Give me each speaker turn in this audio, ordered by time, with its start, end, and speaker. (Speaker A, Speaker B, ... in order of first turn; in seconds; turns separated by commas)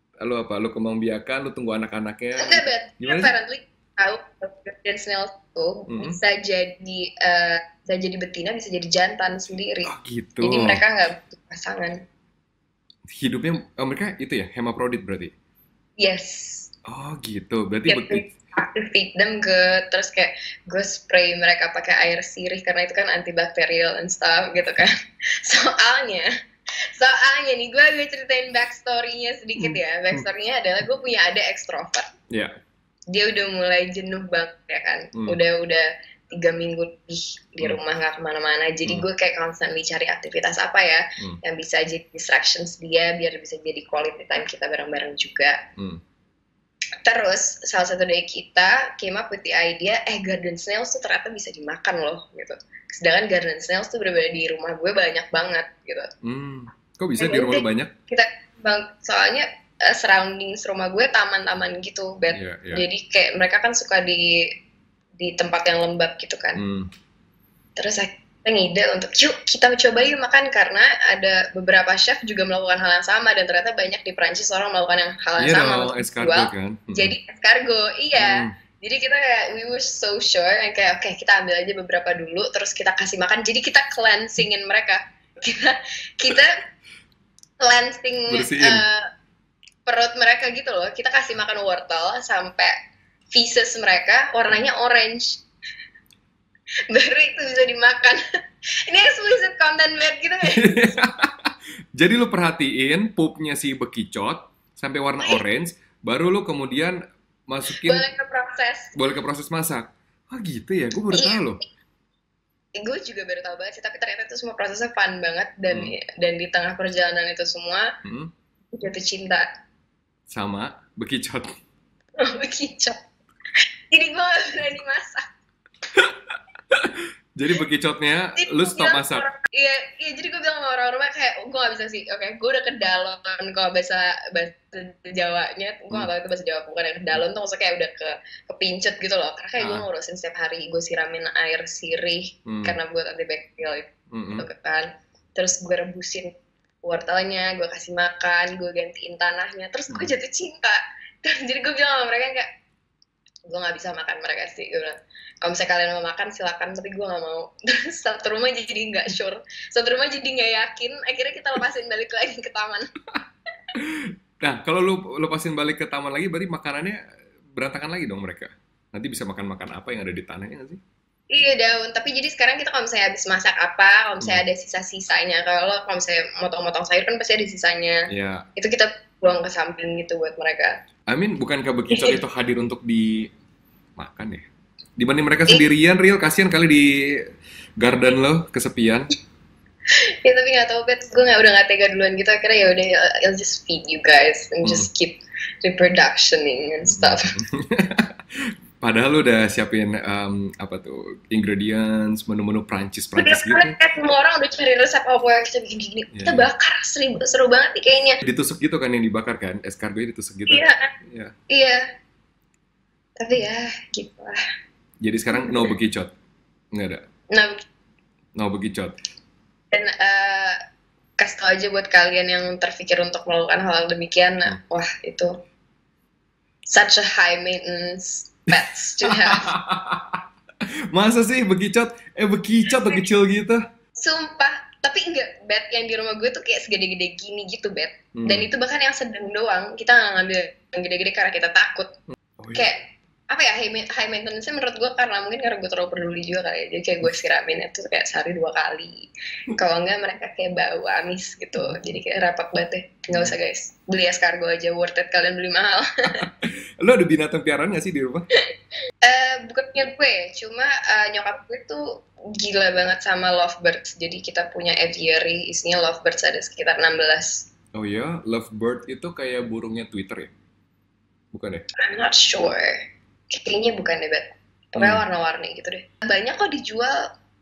Speaker A: 0.2-3.3, Speaker B: 2.4-9.9, Speaker A: 5.9-6.2, Speaker A: 9.8-10.8, Speaker B: 10.4-12.0, Speaker A: 13.1-15.3, Speaker B: 16.0-16.7, Speaker A: 16.9-18.3, Speaker B: 17.9-26.3, Speaker B: 26.9-32.1, Speaker A: 29.6-30.2, Speaker B: 33.1-45.6, Speaker A: 35.1-35.4, Speaker B: 47.0-56.1, Speaker A: 56.2-57.9, Speaker B: 57.2-64.5, Speaker A: 62.3-62.8, Speaker B: 65.2-66.6, Speaker A: 66.5-66.9, Speaker B: 67.8-86.6, Speaker A: 75.4-77.1, Speaker A: 78.2-78.5, Speaker B: 87.6-89.1, Speaker A: 88.3-88.8, Speaker B: 89.9-92.7, Speaker B: 93.3-95.4, Speaker B: 96.9-98.2, Speaker B: 98.9-101.0, Speaker A: 100.4-108.1, Speaker B: 107.7-108.9, Speaker A: 108.9-111.6, Speaker B: 111.1-111.4, Speaker B: 112.8-117.9, Speaker A: 115.7-115.9, Speaker A: 118.0-118.3, Speaker B: 118.7-119.5, Speaker A: 120.3-121.5, Speaker B: 122.2-123.0, Speaker B: 123.9-125.2, Speaker A: 125.9-129.2, Speaker B: 128.4-152.5, Speaker A: 139.6-139.9, Speaker A: 142.4-142.8, Speaker A: 144.1-144.4, Speaker B: 153.5-162.9, Speaker A: 163.7-167.0, Speaker A: 167.5-170.8, Speaker B: 171.3-180.8, Speaker A: 178.1-178.4, Speaker A: 181.1-183.3, Speaker B: 181.9-182.2, Speaker A: 184.0-187.2, Speaker A: 187.8-189.1, Speaker B: 190.2-197.3, Speaker A: 194.6-194.9, Speaker A: 196.9-198.2, Speaker A: 198.8-203.8, Speaker B: 203.2-208.2, Speaker A: 206.1-206.5, Speaker A: 208.2-211.3, Speaker B: 210.5-210.9, Speaker B: 211.5-211.8, Speaker B: 213.2-214.4, Speaker A: 215.0-216.1, Speaker B: 215.3-215.7, Speaker A: 216.7-217.0, Speaker B: 217.3-217.7, Speaker A: 218.3-218.9, Speaker B: 219.7-220.6, Speaker B: 221.2-225.3, Speaker B: 226.7-229.5, Speaker A: 229.0-230.2, Speaker A: 230.9-233.6, Speaker B: 234.0-241.9, Speaker A: 238.2-238.5, Speaker A: 242.4-242.7, Speaker B: 242.5-256.2, Speaker A: 256.2-258.3, Speaker B: 259.0-267.5, Speaker A: 267.7-270.3, Speaker A: 271.3-271.6, Speaker B: 271.8-277.1, Speaker A: 274.8-275.0